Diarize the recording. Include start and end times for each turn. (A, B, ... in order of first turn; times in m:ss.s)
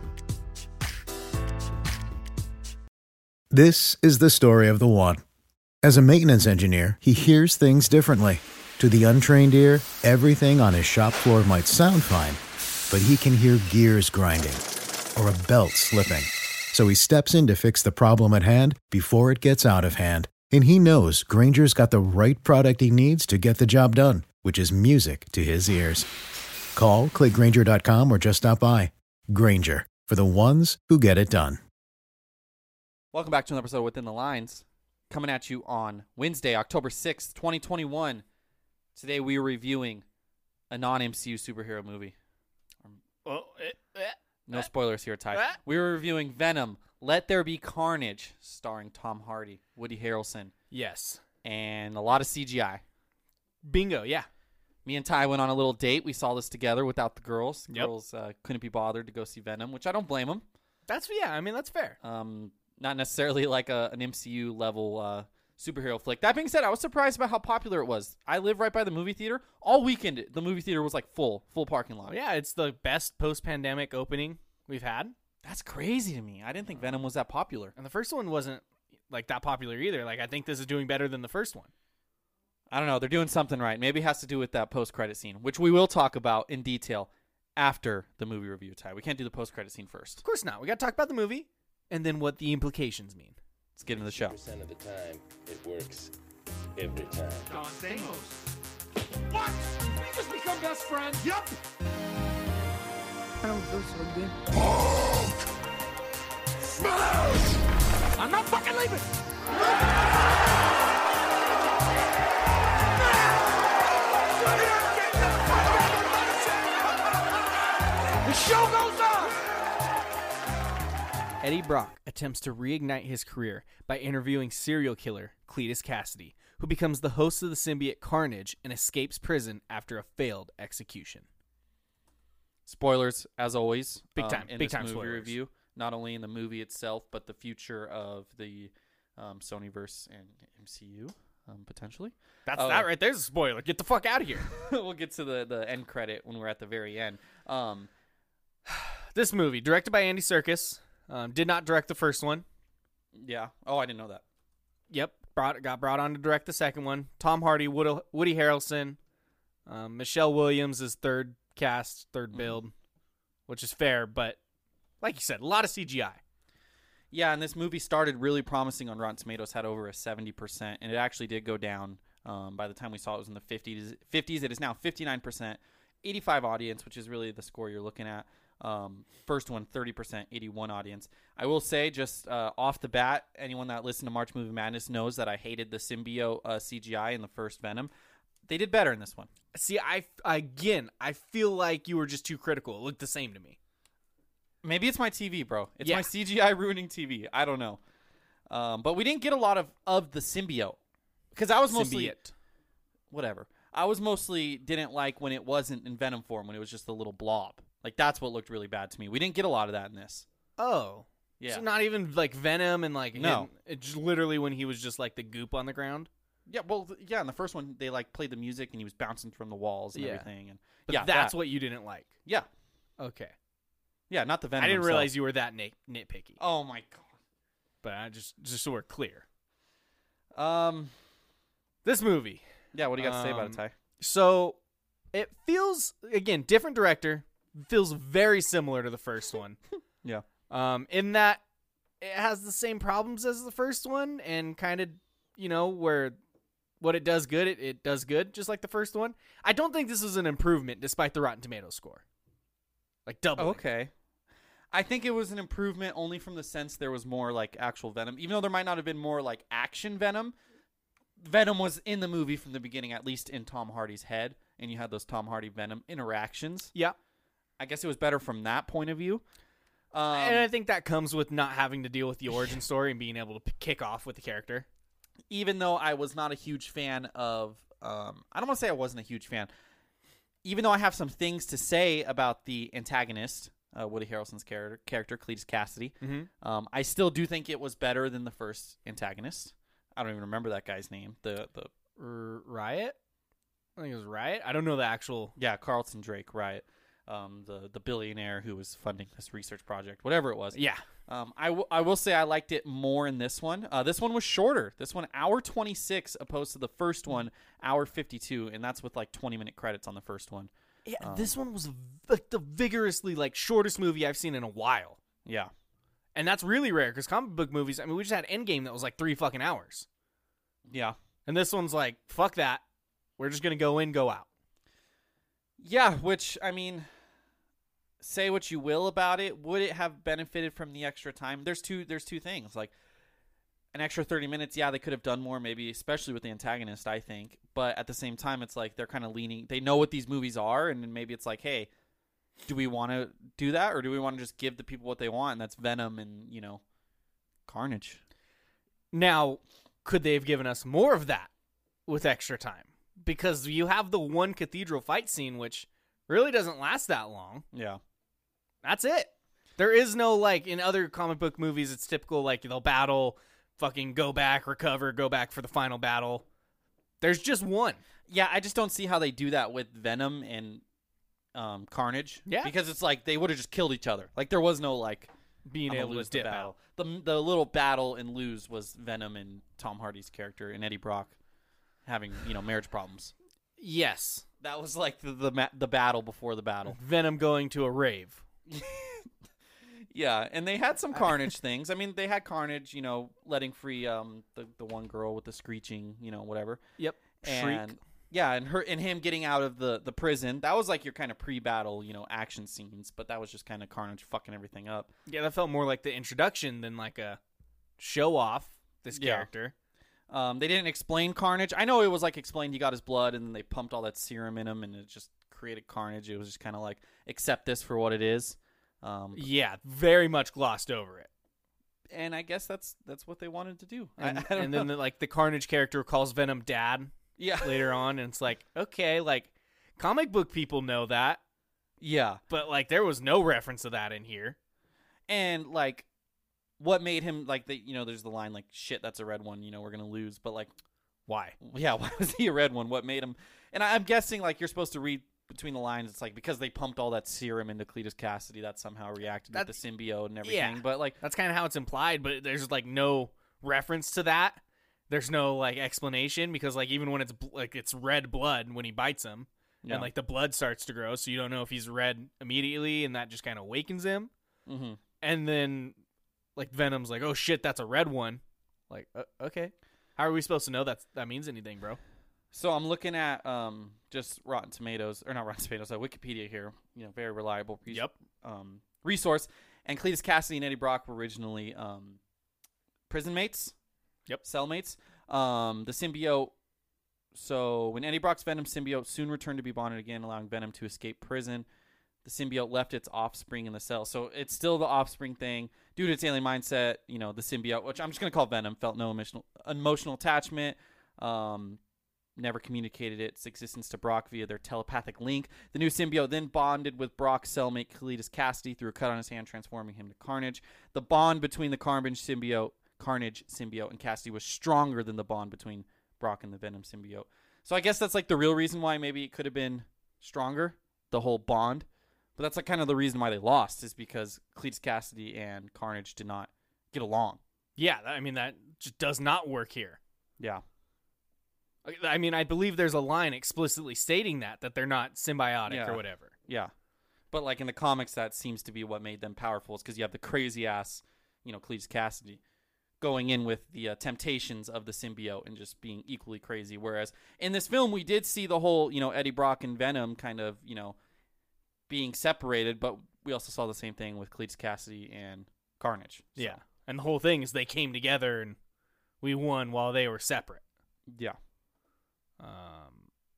0:03.5-0:05.2 A
0:05.8-0:14.6 A
0:15.1-0:26.1 A
0:26.8-0:31.6 A
0:33.1-0:38.2 B
0:38.9-0:40.0 B
0:40.7-0:42.1 B
0:43.2-0:44.7 C
0:44.5-0:50.5 B
0:45.3-0:45.6 C
0:50.7-0:51.2 C
0:51.4-0:52.8 B
0:53.6-0:54.3 C
0:54.8-1:00.4 B
1:00.9-1:02.0 C
1:02.0-1:12.2 B
1:12.1-1:15.2 C
1:15.4-1:17.7 B
1:17.8-1:21.7 C
1:22.7-1:30.2 B
1:30.2-1:33.4 C
1:33.8-1:34.4 B
1:34.0-1:36.1 D
1:36.8-1:37.6 D
1:37.5-1:38.4 E
1:39.3-1:41.6 E
1:43.4-1:45.2 E
1:46.8-1:47.6 E
1:48.2-1:49.9 E
1:54.2-1:57.0 E
1:58.2-1:59.4 E
2:01.4-2:11.2 C
2:12.7-2:22.9 B
2:14.2-2:15.3 C
2:22.5-2:24.5 C
2:24.5-2:27.9 B
2:28.7-2:32.4 C
2:33.1-2:34.2 B
2:34.9-2:39.0 C
2:39.7-2:42.7 C
2:43.5-2:44.4 C
2:45.0-2:46.2 C
2:47.1-3:07.9 B
3:08.5-3:09.3 B
3:09.5-3:13.6 C
3:14.6-3:17.8 B
3:15.8-3:16.1 C
3:18.5-3:20.8 B
3:21.3-3:22.2 B
3:21.7-3:22.3 C
3:23.1-3:30.2 B
3:30.6-3:36.1 C
3:31.4-3:31.6 B
3:33.1-3:33.5 B
3:36.5-3:41.4 B
3:39.9-3:40.3 C
3:40.9-3:42.1 C
3:43.0-3:43.3 C
3:44.1-3:45.1 B
3:44.6-3:46.4 C
3:46.4-3:47.1 B
3:47.8-3:49.2 C
3:50.4-3:50.9 B
3:51.8-3:52.4 C
3:52.7-3:53.7 B
3:53.0-3:54.6 C
3:55.1-3:59.6 C
4:00.5-4:01.4 C
4:02.0-4:06.2 C
4:06.8-4:12.0 C
4:13.1-4:13.6 C
4:13.4-4:13.9 B
4:14.7-4:20.3 B
4:21.2-4:26.7 B
4:27.6-4:29.2 B
4:29.9-4:30.5 B
4:30.1-4:34.7 C
4:35.3-4:39.5 B
4:40.4-4:51.7 B
4:46.0-4:46.3 C
4:52.0-4:52.9 C
4:53.8-4:55.4 C
4:55.4-5:11.3 B
5:00.5-5:00.8 C
5:10.9-5:15.0 C
5:15.2-5:15.5 B
5:16.1-5:19.9 C
5:20.7-5:21.0 B
5:21.3-5:22.6 C
5:23.2-5:24.3 C
5:25.6-5:26.9 B
5:28.0-5:32.7 B
5:33.7-5:41.7 B
5:42.4-5:46.6 B
5:47.5-5:48.0 B
5:48.9-5:51.3 C
5:51.9-5:57.4 C
5:57.5-5:57.8 B
5:58.6-6:06.2 C
6:07.0-6:07.8 C
6:08.1-6:10.6 B
6:11.4-6:15.1 B
6:12.2-6:12.5 C
6:15.4-6:16.5 C
6:15.7-6:21.1 B
6:21.8-6:23.1 B
6:23.6-6:24.2 C
6:24.4-6:26.8 B
6:26.6-6:28.2 C
6:28.5-6:29.1 B
6:29.9-6:36.6 B
6:36.8-6:37.8 C
6:37.2-6:44.9 B
6:45.1-6:47.2 C
6:47.8-6:49.5 C
6:48.9-6:49.3 B
6:50.1-6:59.3 B
6:59.1-7:01.1 C
7:01.9-7:04.7 B
7:04.0-7:11.2 C
7:07.2-7:07.8 B
7:11.8-7:12.2 B
7:12.3-7:14.4 C
7:15.1-7:15.9 B
7:16.6-7:20.5 B
7:21.1-7:21.4 C
7:21.4-7:31.0 B
7:30.2-7:44.1 C
7:39.6-7:39.9 B
7:44.5-7:44.8 B
7:45.0-7:45.8 C
7:46.4-7:51.8 C
7:52.3-8:02.0 B
8:02.9-8:03.5 B
8:04.2-8:06.3 B
8:07.1-8:11.5 B
8:12.0-8:21.6 B
8:22.2-8:41.6 B
8:42.2-8:47.2 B
8:47.6-8:49.8 C
8:51.6-8:56.1 C
8:55.5-8:56.5 B
8:57.1-9:02.2 B
9:02.8-9:10.8 B
9:11.7-9:16.4 B
9:16.2-9:18.4 C
9:19.0-9:20.4 C
9:20.9-9:21.2 B
9:22.2-9:22.9 C